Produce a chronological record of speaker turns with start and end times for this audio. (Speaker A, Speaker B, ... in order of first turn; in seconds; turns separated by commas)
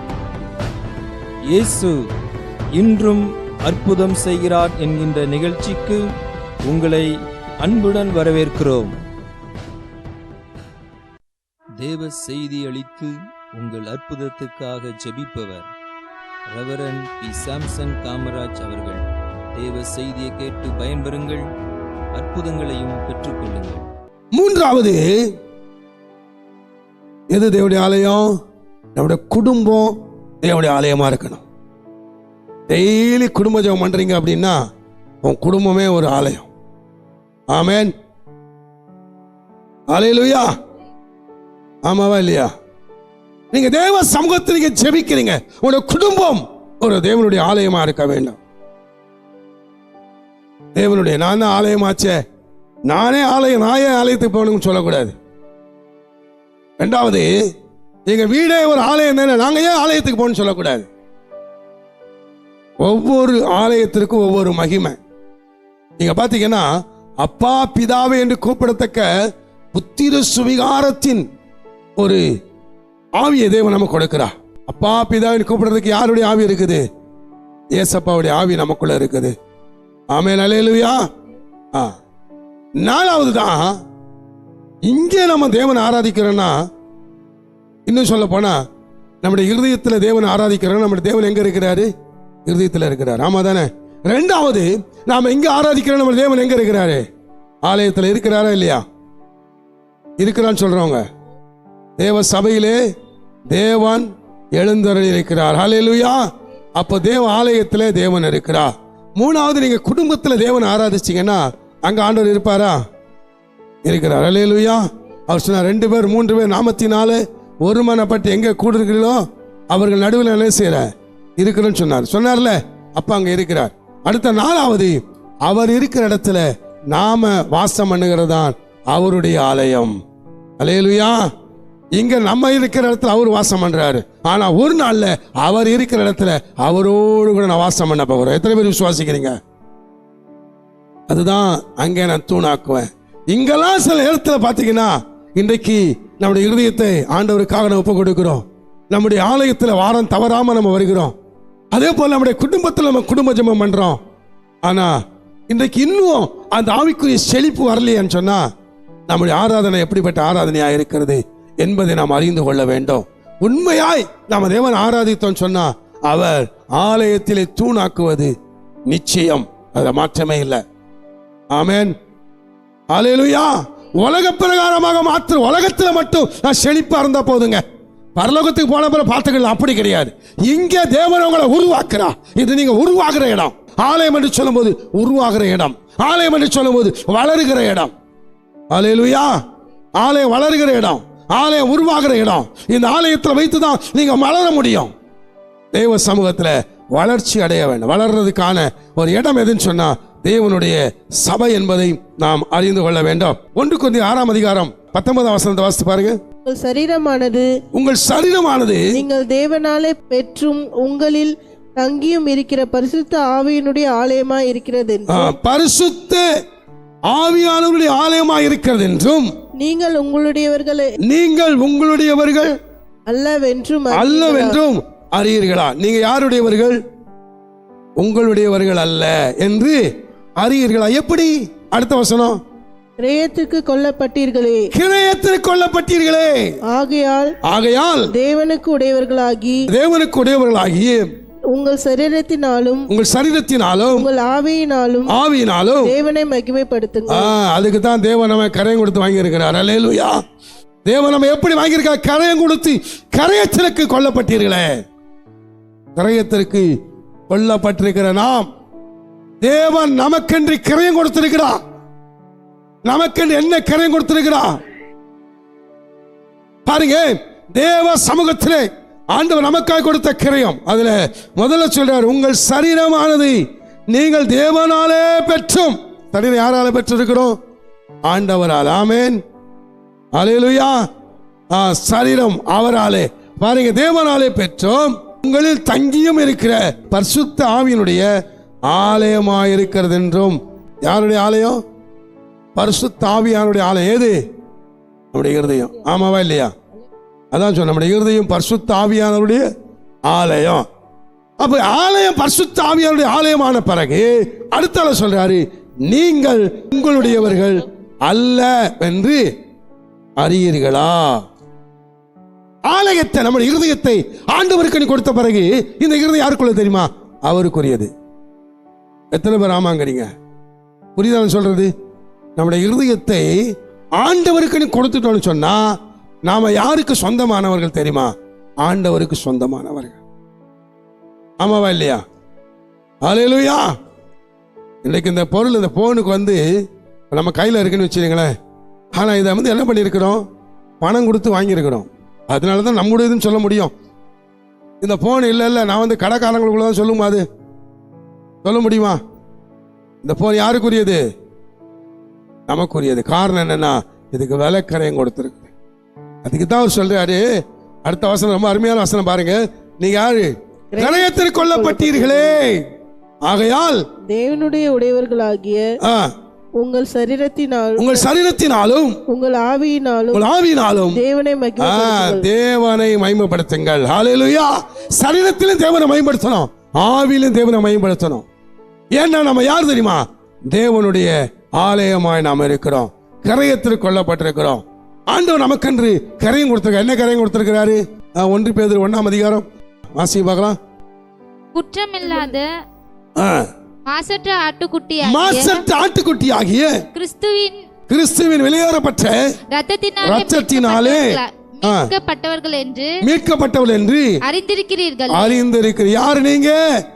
Speaker A: 1.5-2.1, Speaker A: 2.7-6.1, Speaker A: 6.7-9.0, Speaker A: 11.8-15.7, Speaker A: 16.5-19.0, Speaker A: 19.6-21.4, Speaker A: 22.1-23.9, Speaker B: 24.3-25.1, Speaker B: 27.3-28.3, Speaker B: 28.9-31.4, Speaker B: 32.7-34.6, Speaker B: 35.2-36.5, Speaker B: 37.5-37.9, Speaker B: 39.9-40.5, Speaker B: 41.9-42.5, Speaker B: 43.5-48.4, Speaker B: 50.8-52.2, Speaker B: 52.9-55.1, Speaker B: 56.8-57.3, Speaker B: 58.1-60.9, Speaker B: 62.8-65.0, Speaker B: 66.0-66.7, Speaker B: 67.2-69.1, Speaker B: 69.7-71.2, Speaker B: 72.0-72.2, Speaker B: 73.2-76.8, Speaker B: 77.8-79.3, Speaker B: 80.1-81.1, Speaker B: 82.8-83.8, Speaker B: 84.9-86.6, Speaker B: 87.9-88.6, Speaker B: 89.2-91.9, Speaker B: 92.5-97.1, Speaker B: 97.7-98.8, Speaker B: 100.2-101.0, Speaker B: 102.0-102.8, Speaker B: 103.5-112.8, Speaker B: 113.8-129.9, Speaker B: 130.6-131.3, Speaker B: 131.9-139.4, Speaker B: 141.1-151.2, Speaker B: 151.7-154.0, Speaker B: 154.7-154.9, Speaker B: 155.5-158.5, Speaker B: 159.1-168.3, Speaker B: 168.9-170.6, Speaker B: 171.5-171.9, Speaker B: 172.9-177.6, Speaker B: 178.2-187.9, Speaker B: 188.7-189.4, Speaker B: 190.0-194.9, Speaker B: 195.7-206.2, Speaker C: 206.4-207.5, Speaker B: 207.7-208.9, Speaker C: 208.9-215.3, Speaker B: 215.1-216.2, Speaker B: 217.1-219.3, Speaker C: 219.6-220.9, Speaker B: 221.0-222.6, Speaker C: 223.1-224.6, Speaker B: 223.9-226.8, Speaker B: 228.0-229.8, Speaker B: 230.4-232.4, Speaker C: 233.0-234.7, Speaker B: 234.7-236.5, Speaker C: 236.7-237.4, Speaker B: 237.4-238.1, Speaker C: 238.1-239.7, Speaker B: 239.7-241.1, Speaker C: 241.5-242.9, Speaker B: 242.9-244.1, Speaker C: 244.0-245.2, Speaker B: 245.1-245.9, Speaker C: 245.8-247.3, Speaker B: 247.1-250.2, Speaker B: 250.9-254.8, Speaker B: 256.0-256.7, Speaker B: 257.3-258.5, Speaker B: 259.4-261.6, Speaker B: 262.9-264.6, Speaker B: 266.7-277.4, Speaker B: 278.1-279.2, Speaker B: 280.2-280.9, Speaker B: 281.5-288.1, Speaker B: 288.7-291.6, Speaker B: 292.6-294.2, Speaker B: 295.1-296.5, Speaker B: 297.3-299.5, Speaker B: 300.1-300.7, Speaker B: 301.4-309.2, Speaker B: 310.2-311.2, Speaker B: 312.7-317.9, Speaker B: 319.1-320.1, Speaker B: 321.0-321.7, Speaker B: 322.4-323.4, Speaker B: 324.0-330.0, Speaker B: 331.4-332.0, Speaker B: 333.0-333.7, Speaker B: 334.8-336.4, Speaker B: 337.1-338.3, Speaker B: 338.9-340.2, Speaker B: 340.8-343.7, Speaker B: 344.8-347.2, Speaker B: 348.4-349.0, Speaker B: 350.0-351.0, Speaker B: 352.5-355.5, Speaker B: 356.2-357.3, Speaker B: 357.9-362.6, Speaker C: 360.7-362.4, Speaker B: 363.3-363.8, Speaker C: 364.1-365.7, Speaker B: 365.8-366.1, Speaker C: 366.6-368.1, Speaker B: 367.8-369.0, Speaker C: 369.1-370.2, Speaker B: 370.1-371.0, Speaker C: 370.9-372.3, Speaker B: 371.6-378.2, Speaker B: 378.9-389.5, Speaker B: 390.0-390.6, Speaker D: 391.5-392.5, Speaker B: 393.2-393.5, Speaker D: 393.9-395.6, Speaker B: 395.0-396.9, Speaker D: 396.9-397.6, Speaker B: 397.9-399.2, Speaker D: 399.5-402.9, Speaker B: 400.0-401.9, Speaker B: 403.0-404.2, Speaker D: 404.2-405.4, Speaker B: 405.1-406.6